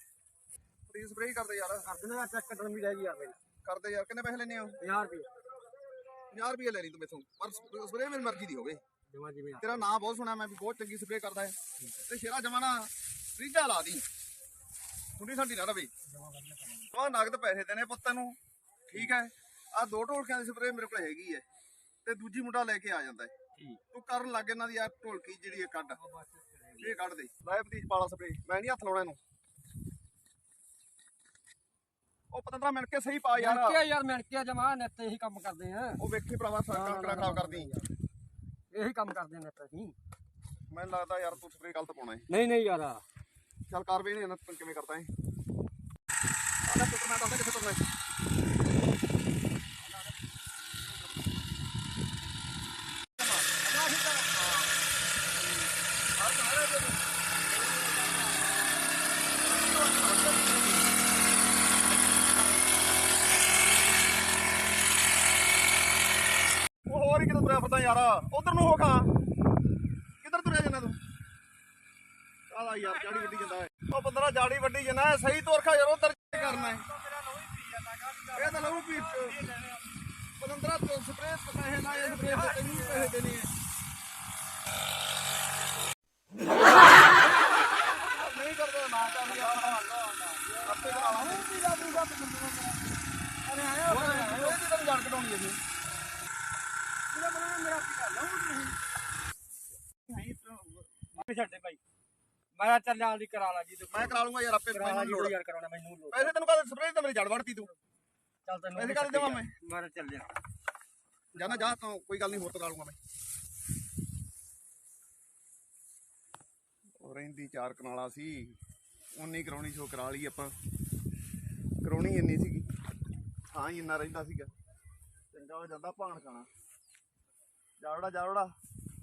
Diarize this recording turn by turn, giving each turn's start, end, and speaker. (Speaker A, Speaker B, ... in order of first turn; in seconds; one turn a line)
Speaker A: 0.9-1.9
Speaker B: 1.8-3.4
Speaker A: 3.6-4.8
Speaker B: 4.8-5.3
Speaker A: 6.3-8.8
Speaker B: 9.1-9.9
Speaker A: 9.6-14.1
Speaker A: 15.2-15.9
Speaker B: 16.1-16.9
Speaker A: 16.9-18.4
Speaker A: 18.9-21.4
Speaker A: 22.1-23.3
Speaker A: 23.9-26.0
Speaker B: 25.9-27.0
Speaker A: 26.8-29.2
Speaker A: 32.3-33.8
Speaker B: 33.4-36.0
Speaker A: 36.0-37.7
Speaker B: 36.7-37.9
Speaker B: 38.7-40.0
Speaker A: 40.7-42.3
Speaker B: 42.3-43.0
Speaker A: 43.7-45.1
Speaker A: 46.7-47.8
Speaker A: 53.2-53.6
Speaker B: 53.5-54.4
Speaker A: 54.2-54.7
Speaker A: 56.2-57.0
Speaker B: 57.8-58.1
Speaker A: 59.5-60.9
Speaker A: 66.9-69.1
Speaker A: 70.2-71.0
Speaker A: 72.5-76.8
Speaker B: 72.9-73.6
Speaker B: 76.3-79.9
Speaker A: 78.3-79.5
Speaker A: 80.4-83.5
Speaker B: 81.8-83.2
Speaker A: 87.9-89.8
Speaker B: 89.2-92.8
Speaker A: 90.6-92.1
Speaker B: 93.5-94.6
Speaker A: 93.9-95.6
Speaker B: 97.1-98.8
Speaker A: 100.1-101.1
Speaker B: 101.1-101.8
Speaker B: 102.5-106.3
Speaker A: 103.9-105.3
Speaker A: 106.1-107.7
Speaker B: 108.5-110.3
Speaker A: 108.8-109.5
Speaker B: 111.3-111.7
Speaker A: 111.3-113.0
Speaker A: 117.0-118.6
Speaker A: 119.2-120.5
Speaker A: 121.8-122.7
Speaker A: 123.5-124.5
Speaker A: 125.3-126.5
Speaker A: 127.8-128.5